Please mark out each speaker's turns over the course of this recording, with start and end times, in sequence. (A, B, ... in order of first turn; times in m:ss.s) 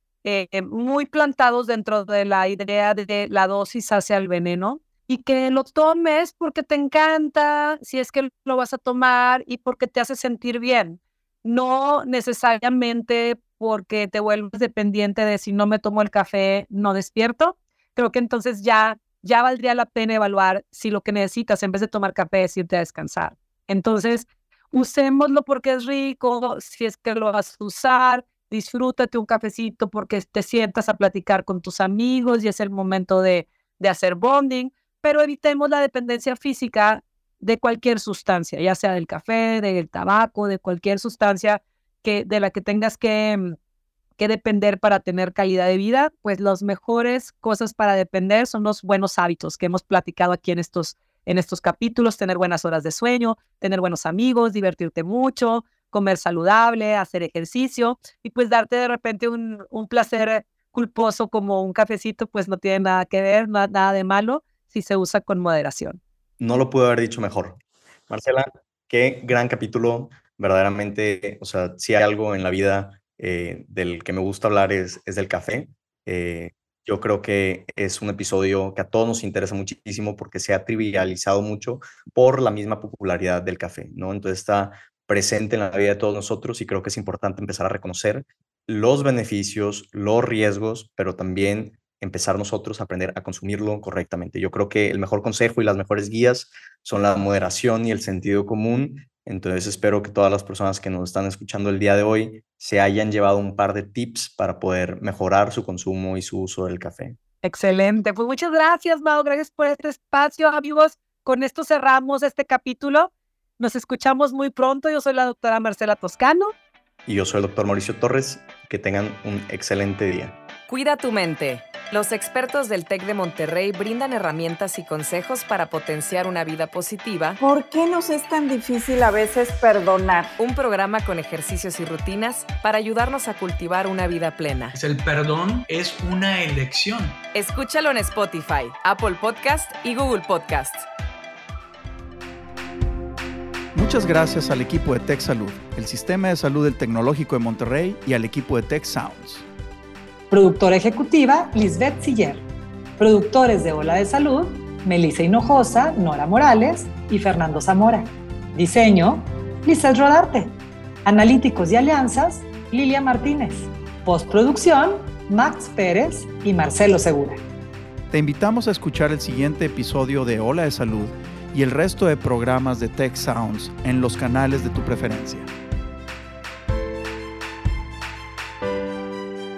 0:00.2-0:43.6 A
0:44.2-1:06.0 A
1:06.4-1:47.2 B
1:47.4-1:56.5 A
1:57.1-2:00.4 B
2:00.7-2:07.4 C
2:07.4-2:10.3 D
2:10.4-2:14.7 C
2:14.7-2:17.2 E
2:17.3-2:20.9 C
2:23.8-2:29.4 F
2:30.3-2:32.4 G
2:33.0-2:40.5 G
2:41.0-2:47.4 G
2:48.1-2:55.5 F